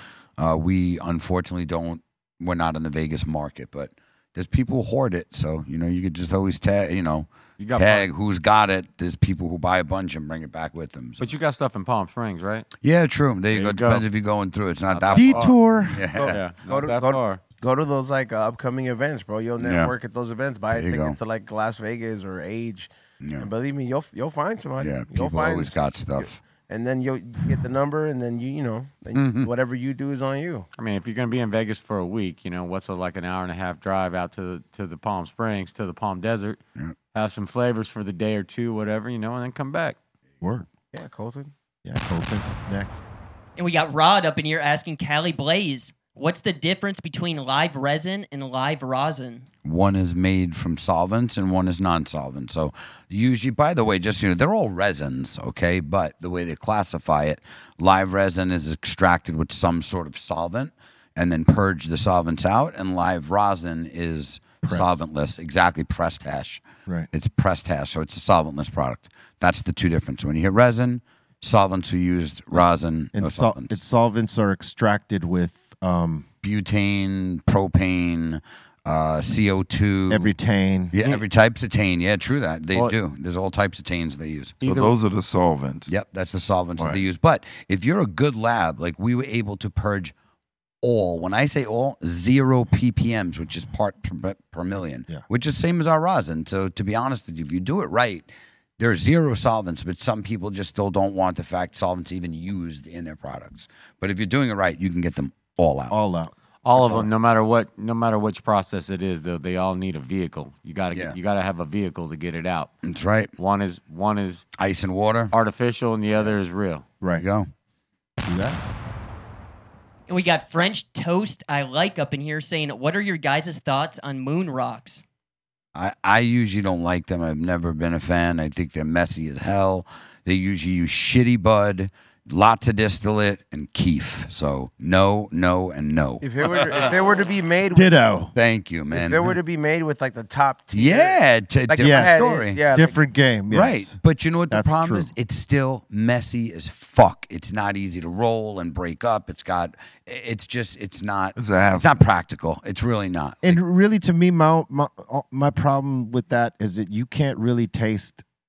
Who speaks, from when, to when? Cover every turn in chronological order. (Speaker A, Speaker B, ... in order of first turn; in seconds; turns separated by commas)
Speaker A: 0.4-11.3, Speaker B: 7.6-8.1, Speaker B: 11.2-12.7, Speaker A: 12.8-16.4, Speaker B: 13.5-14.1, Speaker B: 14.9-15.6, Speaker C: 15.1-16.0, Speaker D: 16.1-30.7, Speaker B: 16.3-17.4, Speaker A: 19.6-19.9, Speaker A: 20.7-21.2, Speaker A: 23.2-23.5, Speaker A: 24.8-26.4, Speaker A: 29.1-29.5, Speaker B: 30.8-36.6, Speaker B: 37.1-40.0, Speaker C: 40.4-40.7, Speaker D: 40.9-41.5, Speaker C: 41.8-43.0, Speaker E: 43.6-49.5, Speaker A: 49.6-73.8, Speaker C: 64.6-65.1, Speaker C: 73.1-76.3, Speaker A: 76.4-80.3, Speaker C: 80.1-80.9, Speaker A: 80.9-84.6, Speaker B: 84.6-84.9, Speaker F: 84.6-85.9, Speaker A: 85.9-90.1, Speaker A: 90.8-106.0, Speaker C: 105.9-107.1, Speaker B: 106.6-112.7, Speaker A: 112.8-113.3, Speaker B: 113.4-114.5, Speaker A: 114.6-115.3, Speaker B: 115.3-116.8, Speaker A: 117.2-117.5, Speaker C: 118.2-118.6, Speaker E: 120.1-125.0, Speaker A: 125.8-136.9, Speaker D: 136.2-137.9, Speaker C: 137.7-138.3, Speaker A: 138.3-139.3, Speaker D: 138.9-143.0, Speaker A: 140.7-142.6, Speaker C: 141.8-145.1, Speaker A: 143.5-153.6, Speaker F: 151.4-152.0, Speaker C: 153.4-158.2